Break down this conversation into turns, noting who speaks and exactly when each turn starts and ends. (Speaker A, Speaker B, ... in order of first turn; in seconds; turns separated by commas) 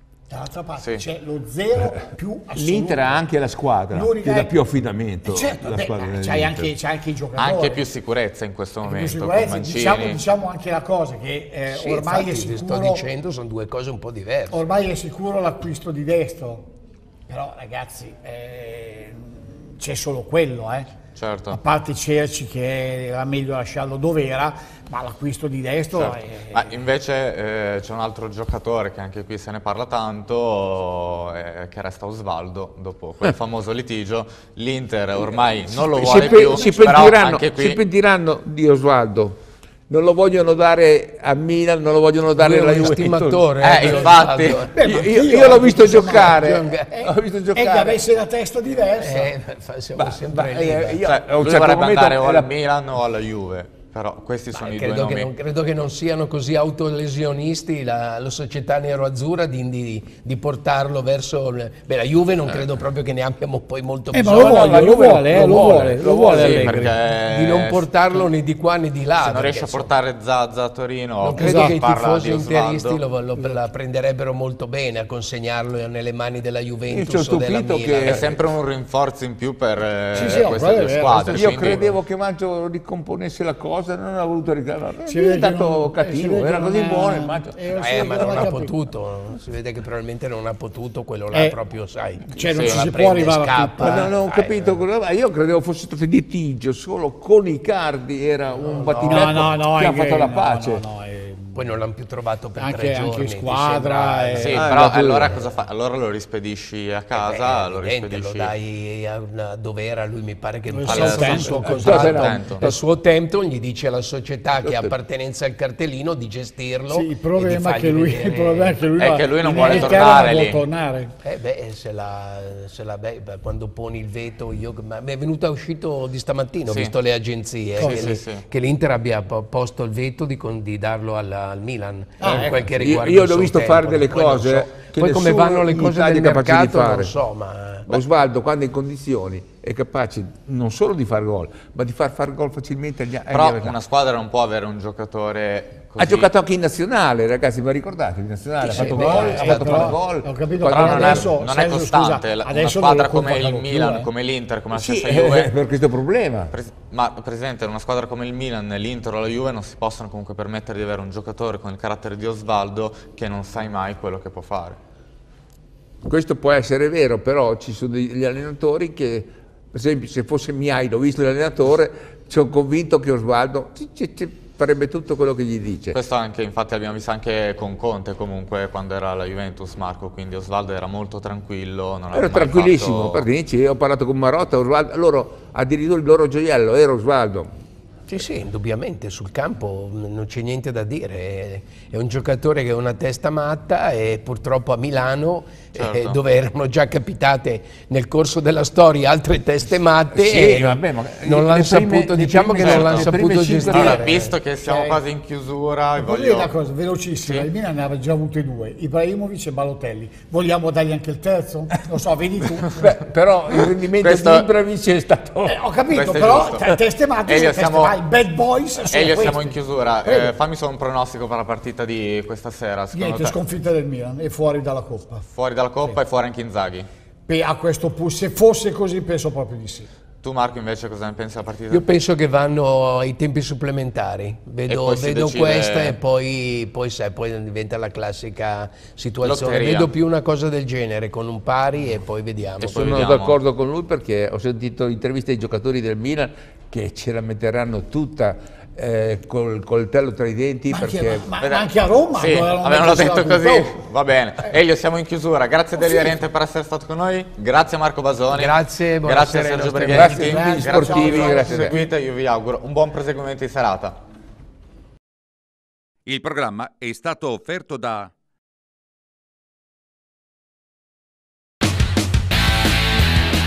Speaker A: 0.3-3.3, Speaker B: 0.8-1.0, Speaker C: 2.5-6.7, Speaker A: 3.9-4.6, Speaker A: 5.2-7.8, Speaker B: 7.3-10.2, Speaker A: 8.8-13.1, Speaker D: 11.7-14.6, Speaker A: 14.5-16.7, Speaker A: 17.3-20.9, Speaker B: 21.1-21.6, Speaker A: 21.5-26.2, Speaker B: 25.9-37.8, Speaker C: 35.7-39.4, Speaker A: 36.0-37.2, Speaker C: 39.9-43.4, Speaker D: 42.4-44.7, Speaker B: 43.6-44.7, Speaker A: 44.5-49.3, Speaker C: 44.8-48.0, Speaker D: 45.3-46.9, Speaker D: 49.0-51.0, Speaker C: 50.0-52.5, Speaker B: 51.0-55.3, Speaker D: 54.5-65.6, Speaker A: 64.1-67.0, Speaker C: 64.3-66.9, Speaker B: 66.3-68.1, Speaker D: 67.2-69.9, Speaker B: 69.2-73.0, Speaker D: 71.2-78.3, Speaker A: 71.3-71.8, Speaker C: 76.9-78.4, Speaker B: 78.0-81.9, Speaker A: 80.1-82.0, Speaker C: 81.3-88.5, Speaker A: 85.0-88.8, Speaker D: 87.7-94.8, Speaker A: 91.3-91.6, Speaker A: 92.3-94.1, Speaker B: 92.5-92.8, Speaker C: 93.8-100.8, Speaker D: 98.6-99.5, Speaker A: 99.0-101.7, Speaker D: 101.5-104.7, Speaker A: 102.5-104.6, Speaker B: 104.4-108.5, Speaker C: 104.5-105.4, Speaker D: 107.1-118.8, Speaker A: 110.7-111.8, Speaker B: 110.8-112.7, Speaker C: 111.7-112.8, Speaker C: 114.6-114.9, Speaker A: 116.9-121.1, Speaker B: 119.0-120.6, Speaker D: 119.6-120.2, Speaker D: 121.2-138.0, Speaker B: 126.7-126.9, Speaker B: 127.8-128.4, Speaker A: 127.8-128.1, Speaker A: 132.2-132.7, Speaker C: 132.8-137.1, Speaker C: 137.9-143.8, Speaker B: 143.3-146.3, Speaker C: 146.0-151.3, Speaker A: 148.6-154.1, Speaker D: 148.6-149.9, Speaker B: 150.7-155.5, Speaker C: 154.7-156.5, Speaker B: 156.5-164.8, Speaker C: 166.0-176.0, Speaker B: 175.9-183.3, Speaker C: 182.1-187.5, Speaker D: 188.1-204.3, Speaker B: 195.7-196.2, Speaker C: 200.1-204.1, Speaker B: 202.6-203.1, Speaker B: 203.7-206.5, Speaker A: 204.6-205.0, Speaker A: 205.9-212.9, Speaker B: 207.2-207.5, Speaker C: 212.7-215.6, Speaker B: 213.9-214.5, Speaker A: 215.4-220.3, Speaker B: 215.9-216.7, Speaker B: 217.2-218.0, Speaker B: 218.9-223.3, Speaker A: 222.9-225.3, Speaker B: 225.3-226.9, Speaker A: 227.3-229.9, Speaker B: 230.2-231.8, Speaker D: 231.7-243.1, Speaker B: 234.7-236.0, Speaker B: 239.2-239.9, Speaker B: 242.6-243.3, Speaker C: 242.6-251.2, Speaker A: 250.7-253.8, Speaker B: 251.4-264.0, Speaker A: 255.8-256.1, Speaker D: 258.3-260.5, Speaker C: 259.9-261.7, Speaker A: 259.9-261.9, Speaker E: 266.1-268.1